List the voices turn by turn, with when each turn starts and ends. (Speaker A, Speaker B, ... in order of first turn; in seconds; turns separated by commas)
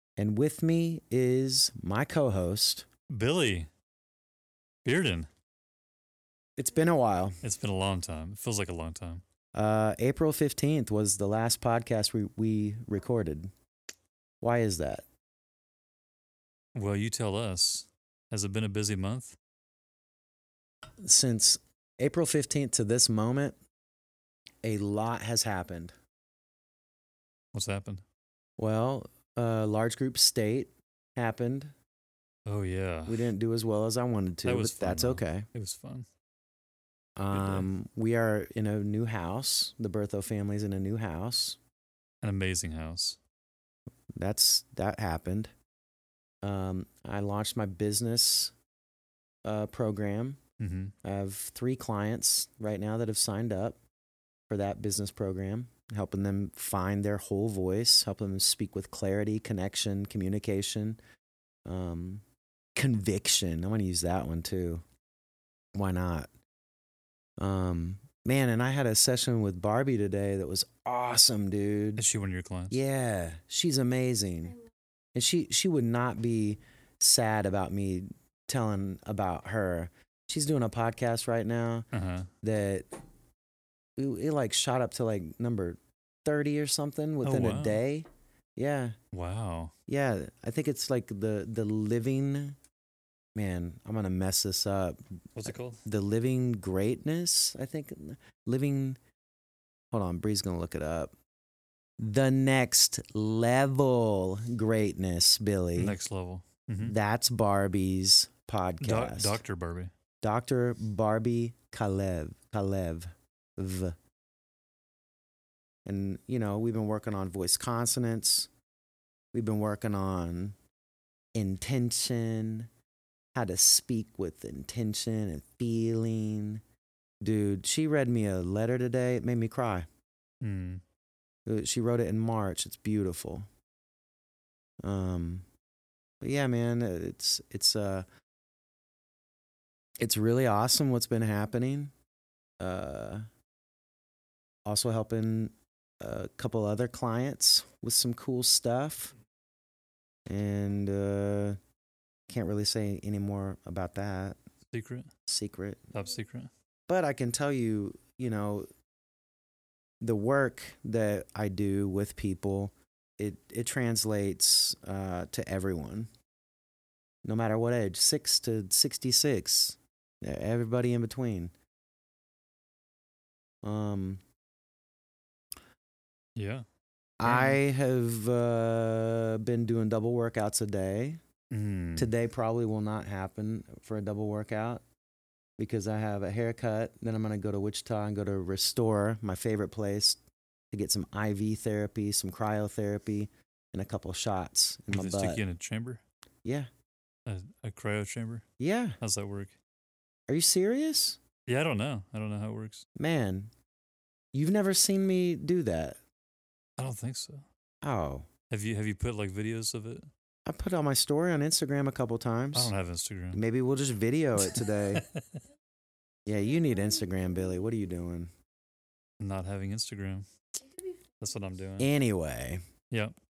Speaker A: 0.2-2.9, Speaker B: 3.1-3.7, Speaker B: 4.8-5.3, Speaker A: 6.5-7.4, Speaker B: 7.4-9.2, Speaker A: 9.5-13.5, Speaker A: 14.4-15.1, Speaker B: 16.7-19.4, Speaker A: 21.0-23.6, Speaker A: 24.6-25.9, Speaker B: 27.5-28.0, Speaker A: 28.6-31.7, Speaker B: 32.5-33.3, Speaker A: 33.0-35.5, Speaker B: 34.5-36.1, Speaker A: 37.2-41.6, Speaker B: 37.3-37.7, Speaker B: 42.2-43.2, Speaker A: 44.1-45.5, Speaker A: 46.4-48.5, Speaker A: 49.4-50.4, Speaker B: 50.6-50.9, Speaker A: 51.0-53.8, Speaker A: 54.5-61.0, Speaker A: 61.6-62.2, Speaker A: 62.7-64.8, Speaker A: 65.7-66.3, Speaker A: 67.4-72.0, Speaker B: 72.0-72.8, Speaker A: 72.7-74.5, Speaker A: 75.1-81.8, Speaker B: 81.9-82.3, Speaker A: 82.4-82.9, Speaker A: 84.0-89.0, Speaker B: 87.2-87.8, Speaker B: 89.1-89.7, Speaker A: 89.9-92.6, Speaker A: 93.3-99.0, Speaker B: 95.3-95.8, Speaker A: 99.9-101.1, Speaker A: 102.0-106.0, Speaker B: 105.8-106.9, Speaker A: 106.8-109.4, Speaker B: 108.8-109.9, Speaker A: 110.2-114.0, Speaker A: 115.8-118.5, Speaker A: 119.3-120.5, Speaker A: 121.3-122.7, Speaker A: 123.3-126.6, Speaker A: 127.2-129.9, Speaker B: 130.4-130.8, Speaker A: 131.4-133.5, Speaker A: 134.8-135.4, Speaker A: 136.2-138.1, Speaker A: 140.0-141.9, Speaker A: 142.6-143.3, Speaker A: 144.7-149.1, Speaker A: 150.3-151.6, Speaker A: 152.3-154.4, Speaker B: 154.7-155.1, Speaker A: 155.3-155.8, Speaker B: 155.9-156.5, Speaker A: 156.9-158.7, Speaker A: 160.0-166.1, Speaker A: 167.2-171.5, Speaker A: 173.6-174.2, Speaker B: 176.3-176.6, Speaker A: 177.2-181.2, Speaker B: 177.2-177.6, Speaker B: 181.5-182.1, Speaker A: 181.9-184.8, Speaker A: 185.6-190.2, Speaker A: 190.7-195.4, Speaker B: 194.9-196.0, Speaker A: 196.4-196.7, Speaker B: 197.2-198.4, Speaker A: 198.6-199.0, Speaker B: 199.0-199.6, Speaker A: 200.3-201.2, Speaker B: 201.4-202.8, Speaker A: 202.9-203.5, Speaker A: 204.3-206.0, Speaker B: 206.8-207.4, Speaker A: 207.8-208.3, Speaker B: 208.5-210.1, Speaker A: 210.4-212.7, Speaker B: 212.5-213.4, Speaker A: 213.3-215.0, Speaker B: 214.4-215.4, Speaker A: 216.2-218.3, Speaker B: 219.2-220.3, Speaker B: 221.2-221.9, Speaker A: 221.8-222.6, Speaker B: 222.9-223.1